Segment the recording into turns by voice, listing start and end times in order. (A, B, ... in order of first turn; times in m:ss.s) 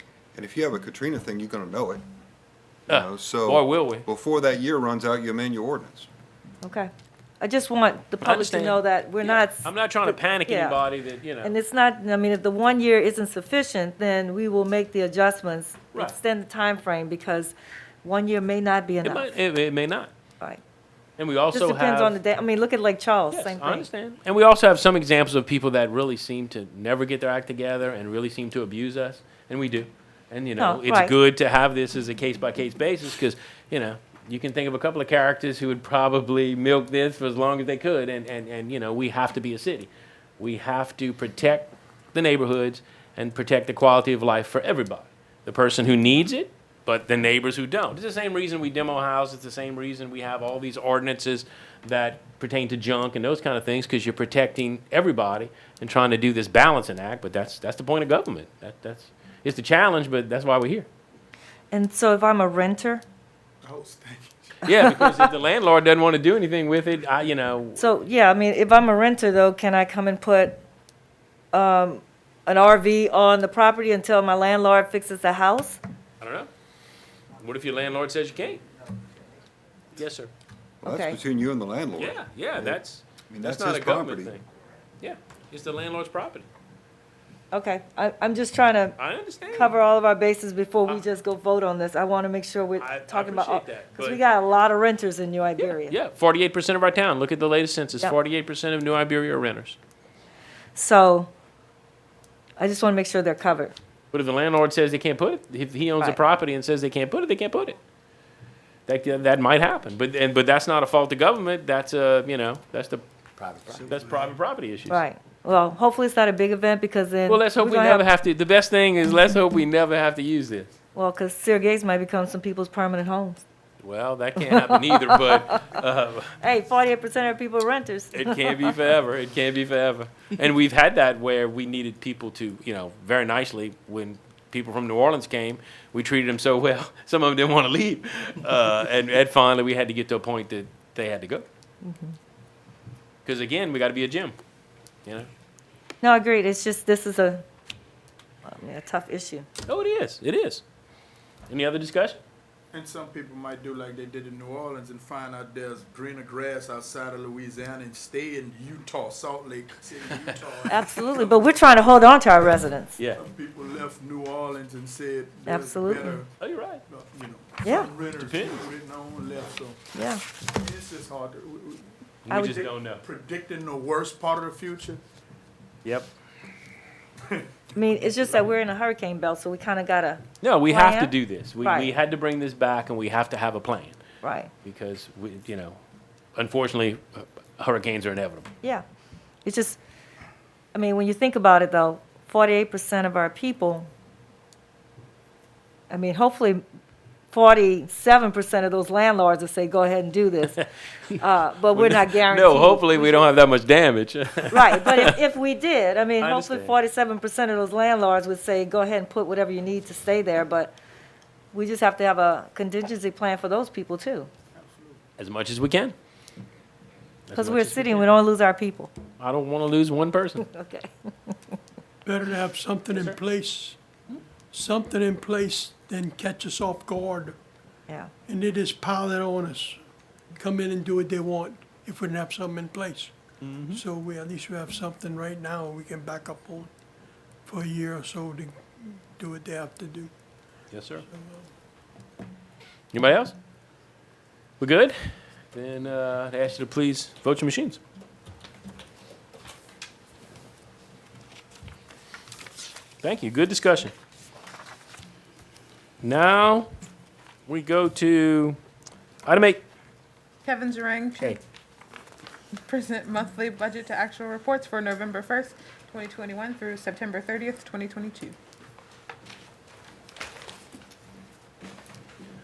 0:00.3-0:02.0 A
0:02.9-0:06.1 A
0:02.9-0:04.0 B
0:06.6-0:06.9 C
0:07.4-0:10.8 C
0:08.2-0:11.5 B
0:11.4-0:19.3 C
0:19.0-0:20.1 B
0:21.2-0:22.2 B
0:21.5-0:23.9 C
0:23.3-1:00.9 B
0:30.6-0:31.1 C
1:01.7-1:03.0 C
1:03.6-1:04.5 D
1:04.6-1:07.8 B
1:04.7-1:05.2 C
1:07.8-1:10.6 C
1:11.5-1:15.8 C
1:16.2-1:16.5 B
1:17.4-1:18.6 B
1:19.9-1:20.3 B
1:20.8-1:24.3 A
1:20.8-1:21.2 C
1:22.0-1:24.4 B
1:25.0-1:26.5 B
1:27.5-1:29.0 C
1:29.0-1:29.8 B
1:29.5-1:36.0 C
1:32.8-1:34.2 B
1:35.6-1:39.8 B
1:40.7-1:41.3 C
1:42.6-1:43.7 C
1:44.1-1:47.8 B
1:48.9-1:55.0 B
1:53.9-1:54.3 D
1:54.9-1:58.1 C
1:57.3-2:00.7 B
2:00.9-2:03.4 C
2:03.8-2:06.4 B
2:04.4-2:05.4 C
2:06.4-2:08.7 C
2:08.1-2:21.4 B
2:21.8-2:22.2 C
2:23.2-2:24.4 B
2:26.0-2:27.4 C
2:28.4-2:29.5 C
2:29.7-2:30.6 B
2:31.5-2:32.2 B
2:32.7-2:41.6 D
2:40.7-2:43.0 C
2:43.1-2:46.3 D
2:45.4-2:46.2 C
2:46.4-2:46.8 B
2:46.9-2:49.8 D
2:47.6-2:47.9 C
2:48.2-2:48.7 B
2:49.9-2:50.2 C
2:50.5-2:51.9 D
2:52.2-2:53.0 B
2:52.3-2:52.6 C
2:52.4-2:55.0 D
2:55.8-2:56.1 B
2:57.8-3:01.9 C
3:00.4-3:04.0 B
3:04.2-3:04.5 C
3:04.6-3:05.8 B
3:06.4-3:08.5 B
3:09.4-3:09.8 C
3:10.7-3:13.9 C
3:15.9-3:16.6 C
3:17.3-3:20.6 C
3:21.2-3:23.3 C
3:21.7-3:25.2 B
3:24.5-3:30.7 C
3:26.2-3:26.7 B
3:31.5-3:34.3 C
3:34.6-3:35.0 D
3:35.2-3:35.9 B
3:37.3-3:38.1 B
3:37.3-3:38.9 C
3:39.2-3:40.5 B
3:40.4-3:41.4 C
3:42.0-3:43.8 E
3:44.5-3:47.4 E
3:48.3-3:49.8 E
3:50.3-3:53.2 E
3:53.4-3:53.8 B
3:53.7-3:56.7 E
3:57.4-4:00.1 E
4:00.7-4:01.0 B
4:01.0-4:01.5 E
4:02.9-4:03.3 B
4:04.6-4:07.8 B
4:13.0-4:13.9 B
4:16.0-4:16.7 B
4:17.5-4:18.6 B
4:19.2-4:19.6 B
4:20.4-4:21.4 F
4:22.6-4:28.3 F